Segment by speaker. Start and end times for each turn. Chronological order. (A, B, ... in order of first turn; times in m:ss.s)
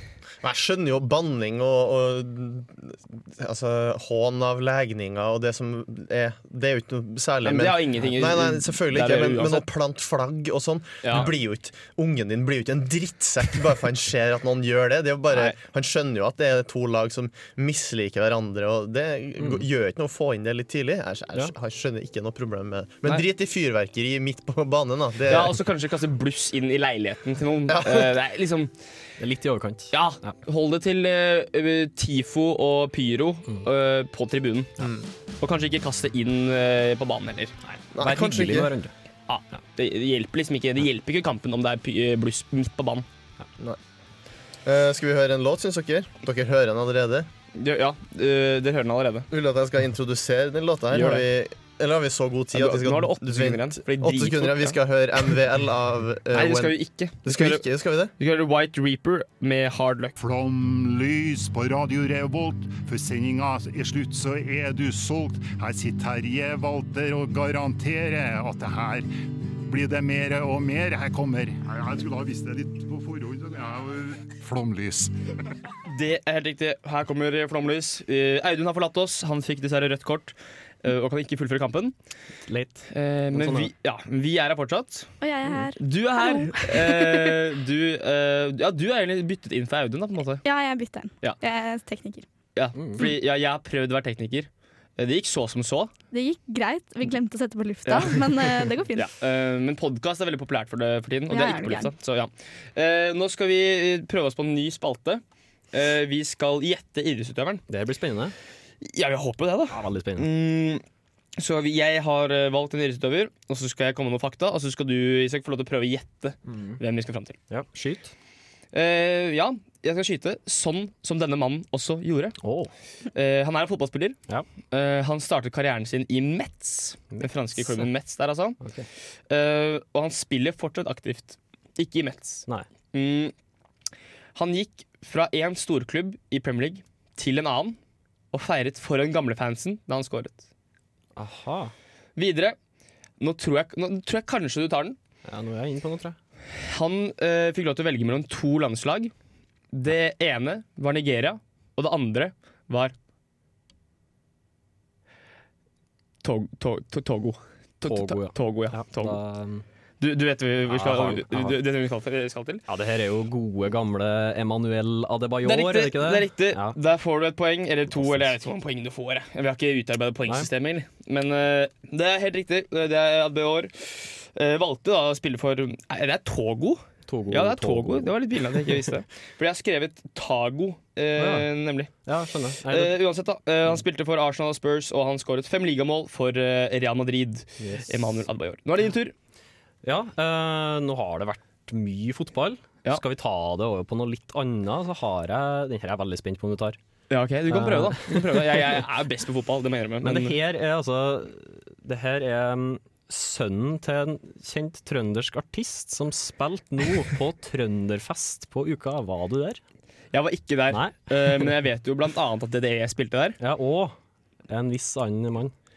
0:00.4-0:25.6 A
0:07.4-0:09.6 B
0:11.0-0:11.3 B
0:15.3-0:15.6 B
0:25.3-0:28.7 B
0:27.7-0:28.2 A
0:29.2-0:30.4 C
0:29.9-0:34.7 B
0:35.4-0:38.6 B
0:37.6-0:38.9 C
0:38.0-0:38.7 A
0:39.3-0:43.0 B
0:44.6-0:47.3 A
0:47.5-0:49.3 B
0:49.3-0:58.1 A
0:50.9-0:51.2 B
0:52.5-0:54.8 B
0:56.3-0:57.6 B
0:58.2-1:00.1 B
1:00.2-1:09.1 D
1:09.6-1:15.1 D
1:15.9-1:21.9 B
1:22.5-1:23.7 C
1:22.9-1:25.1 B
1:25.2-1:27.3 E
1:25.8-1:30.4 B
1:30.4-1:32.2 E
1:32.5-1:35.9 B
1:32.7-1:33.0 C
1:36.1-1:39.1 E
1:37.8-1:38.1 B
1:38.9-1:45.2 B
1:41.3-1:41.9 E
1:45.7-1:47.6 B
1:47.7-1:48.3 C
1:48.8-1:50.8 B
1:49.7-1:50.3 C
1:51.4-1:57.4 B
1:56.5-1:56.8 C
1:57.5-1:58.1 C
1:58.7-2:02.3 B
2:02.4-2:02.7 C
2:03.1-2:04.2 B
2:04.7-2:08.6 B
2:07.1-2:07.8 C
2:08.6-2:08.9 C
2:09.3-2:13.3 B
2:14.3-2:17.8 B
2:18.3-2:20.5 B
2:21.1-2:21.7 C
2:22.2-2:22.6 B
2:23.2-2:25.0 B
2:25.2-2:26.2 C
2:26.5-2:29.1 B
2:29.7-2:32.9 B
2:36.2-2:39.2 B
2:37.8-2:39.6 C
2:40.0-2:42.6 B
2:40.7-2:41.6 C
2:42.7-2:46.8 C
2:45.4-3:01.9 B
2:47.9-2:48.3 C
2:57.0-2:58.7 C
3:01.2-3:01.5 C
3:02.0-3:03.0 C
3:02.7-3:09.1 B
3:07.6-3:08.0 C
3:09.8-3:16.8 C
3:17.1-3:20.4 B
3:17.5-3:18.8 C
3:20.0-3:29.6 C
3:30.1-3:33.4 B
3:30.7-3:31.5 C
3:33.4-3:34.0 C
3:34.5-3:35.5 C